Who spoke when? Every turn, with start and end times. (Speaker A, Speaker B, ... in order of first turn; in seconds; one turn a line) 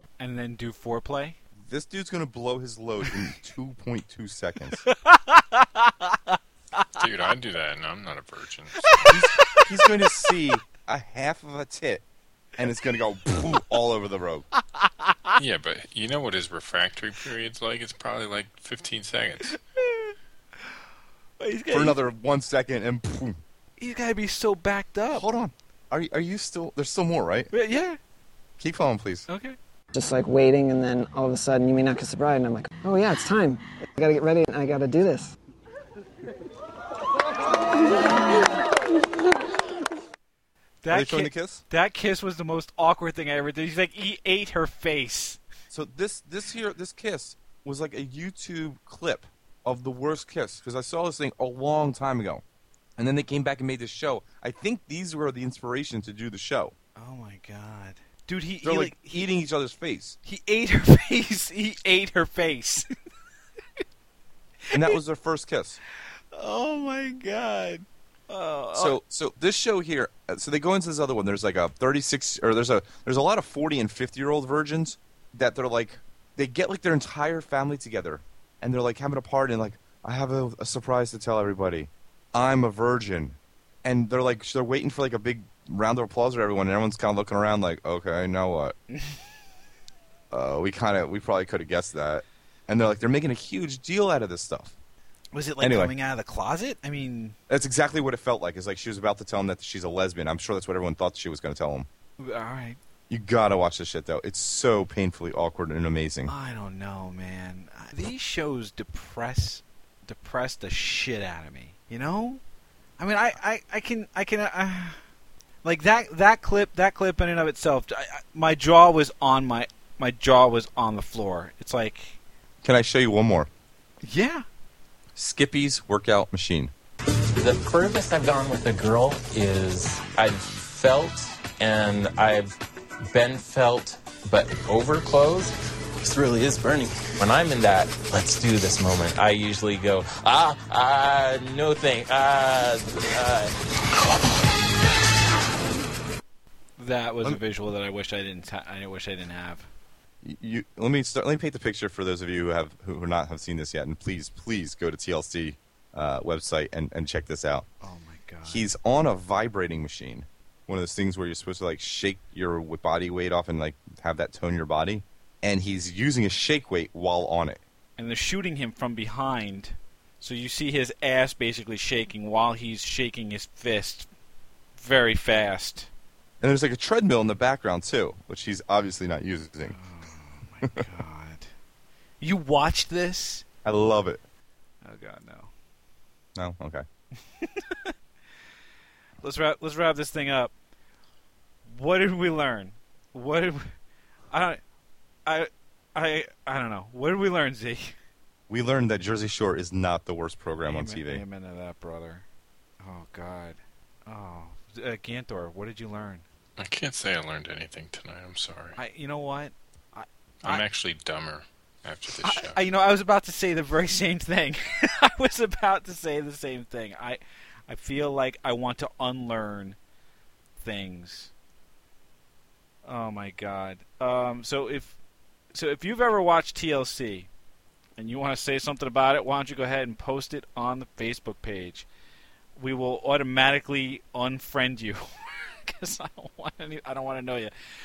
Speaker A: 0.2-1.4
Speaker B: 1.6-4.8
Speaker A: 4.8-6.8
Speaker C: 7.0-9.0
Speaker A: 8.8-10.3
Speaker B: 9.0-12.1
Speaker B: 12.6-14.5
Speaker A: 14.7-15.4
Speaker C: 15.4-19.5
Speaker A: 19.4-20.8
Speaker A: 21.4-22.0
Speaker B: 21.7-23.4
Speaker A: 23.8-25.2
Speaker B: 25.1-27.5
Speaker A: 27.5-28.0
Speaker B: 28.6-29.3
Speaker A: 29.3-29.6
Speaker D: 29.9-35.3
Speaker A: 40.8-45.4
Speaker B: 40.9-41.6
Speaker B: 45.7-52.4
Speaker B: 53.0-56.7
Speaker A: 57.0-59.2
Speaker B: 58.6-60.2
Speaker A: 60.2-62.9
Speaker A: 64.7-65.0
Speaker B: 64.7-65.8
Speaker A: 66.3-69.0
Speaker B: 68.7-88.8
Speaker B: 90.3-94.7
Speaker A: 95.3-97.4
Speaker B: 95.6-95.9
Speaker B: 97.5-101.9
Speaker A: 102.2-102.8
Speaker B: 103.1-106.3
Speaker A: 106.2-112.4
Speaker A: 113.0-115.0
Speaker A: 115.6-122.2
Speaker B: 122.6-123.5
Speaker A: 124.0-124.4
Speaker B: 125.2-126.7
Speaker E: 127.4-144.3
Speaker A: 146.8-149.7
Speaker B: 150.2-157.7
Speaker A: 157.8-158.7
Speaker B: 158.4-167.6
Speaker A: 168.0-174.1
Speaker A: 174.8-175.9
Speaker B: 176.4-179.8
Speaker A: 179.6-181.5
Speaker A: 182.2-183.4
Speaker B: 183.6-184.2
Speaker A: 184.8-185.5
Speaker B: 186.3-186.8
Speaker A: 187.4-187.9
Speaker A: 189.2-190.5
Speaker A: 191.7-193.7
Speaker A: 194.3-194.6
Speaker A: 195.2-197.9
Speaker B: 198.5-201.2
Speaker A: 200.7-202.2
Speaker A: 202.8-206.2
Speaker C: 206.6-208.8
Speaker A: 208.8-210.6
Speaker C: 210.4-212.6
Speaker A: 212.2-219.8
Speaker A: 220.6-221.3
Speaker A: 222.8-225.0
Speaker A: 225.5-227.3
Speaker A: 228.0-231.8
Speaker A: 232.6-237.5